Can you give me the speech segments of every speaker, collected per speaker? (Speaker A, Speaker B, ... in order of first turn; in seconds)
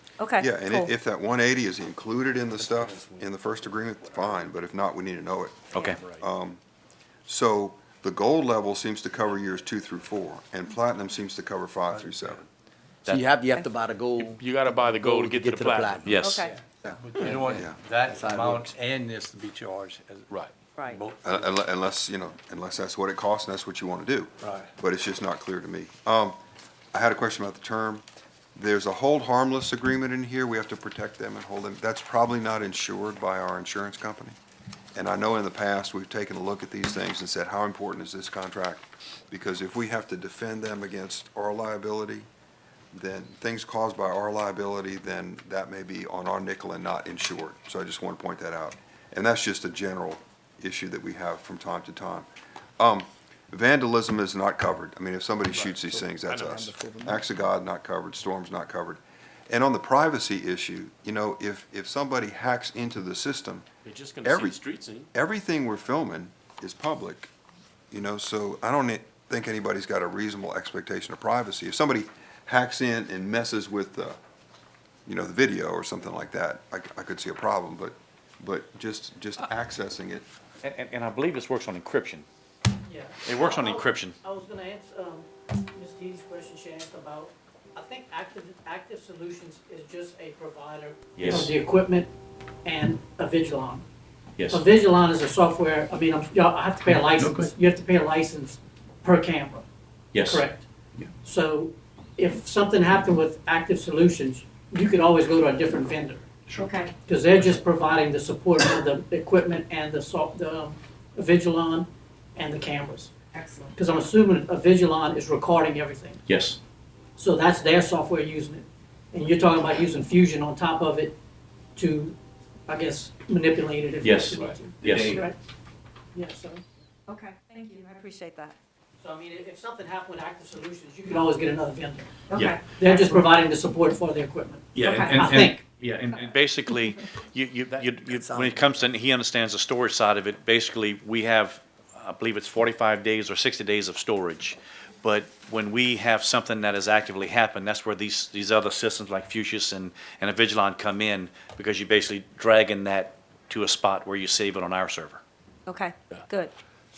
Speaker A: 0.2-0.9, 16.2-16.5, 20.8-21.1, 106.6-106.9, 113.3-113.8, 127.1-128.6, 132.3-133.2, 134.8-135.2, 155.7-156.5
Speaker B: 0.4-6.6, 7.2-12.4, 17.4-17.8, 21.2-26.4, 26.9-28.0, 28.6-34.3, 34.9-42.3, 42.9-52.3, 52.8-63.6, 64.2-64.6, 65.1-67.3, 67.9-74.2, 75.0-80.2
Speaker C: 5.7-6.0, 16.0-16.4, 80.6-82.2, 83.2-84.2, 91.2-91.5, 94.4-94.6, 100.1-100.5, 116.3-116.6, 124.0-125.3, 132.3-132.6, 134.7-155.2
Speaker D: 5.8-6.1, 14.2-16.4, 55.5-56.7, 63.8-65.1, 137.7-138.4
Speaker E: 11.9-12.3, 16.5-20.3, 20.8-21.5, 24.4-24.7, 96.8-97.5
Speaker F: 13.1-16.2, 16.8-18.8, 55.9-57.3, 138.2-138.6
Speaker G: 82.9-92.1, 92.6-93.8, 94.5-99.6, 100.2-100.6, 101.2-106.2, 107.0-113.1, 113.8-116.2, 117.2-121.1, 121.8-122.2, 122.7-125.3, 126.1-126.6, 129.0-132.1, 132.8-135.6